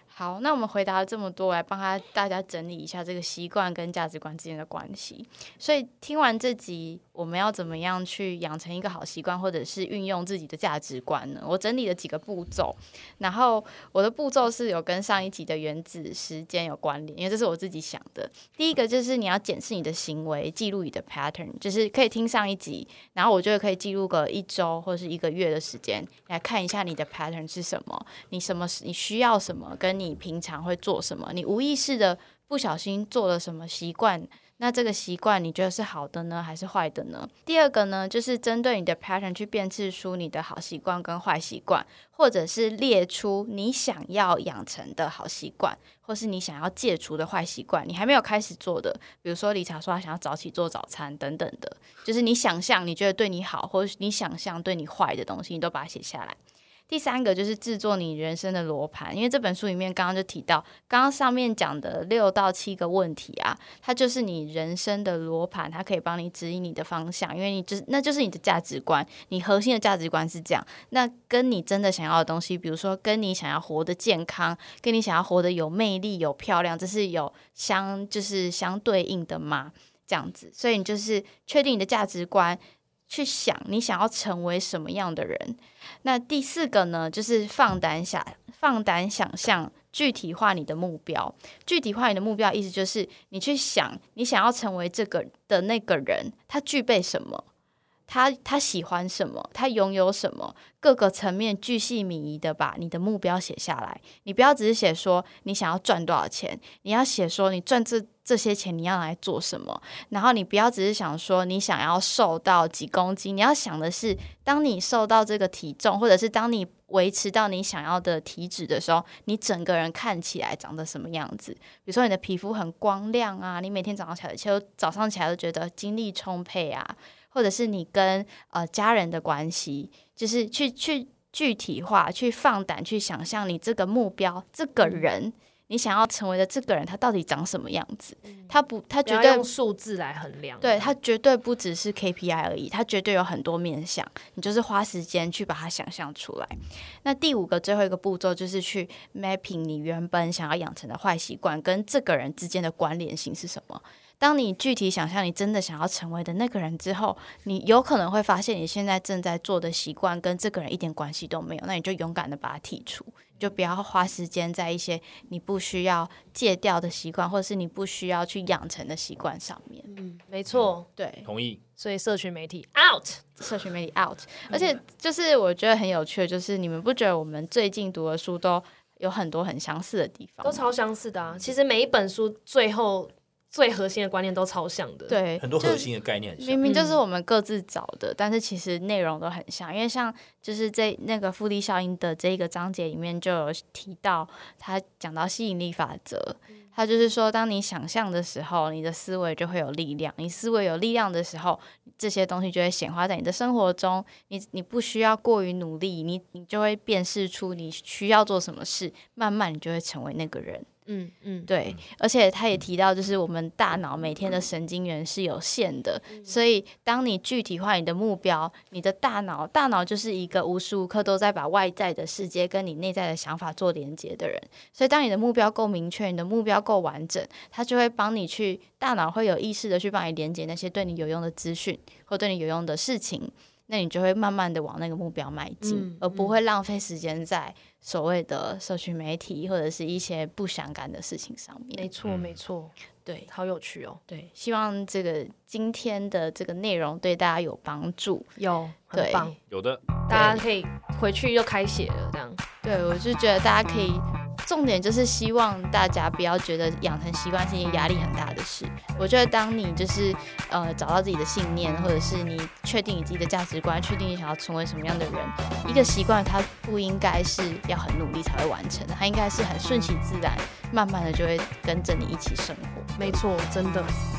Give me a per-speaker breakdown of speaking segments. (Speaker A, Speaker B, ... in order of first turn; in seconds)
Speaker A: 0.1-97.5, 98.1-139.5, 140.6-169.9, 171.0-171.3, 173.4-180.7, 185.1-210.7, 211.5-241.9, 244.1-248.3, 248.9-249.3, 250.1-250.4, 252.6-273.2
Speaker B: 134.8-135.1, 138.3-138.5, 139.1-140.9, 169.9-170.9, 171.8-173.4, 180.4-185.2, 186.6-187.0, 210.9-211.5, 216.1-216.4, 235.6-236.4, 241.8-242.7, 243.3-244.0, 248.4-249.4, 250.1-252.4, 273.0-273.9
Speaker C: 171.2-171.6, 185.4-186.7, 242.0-242.4, 249.5-249.8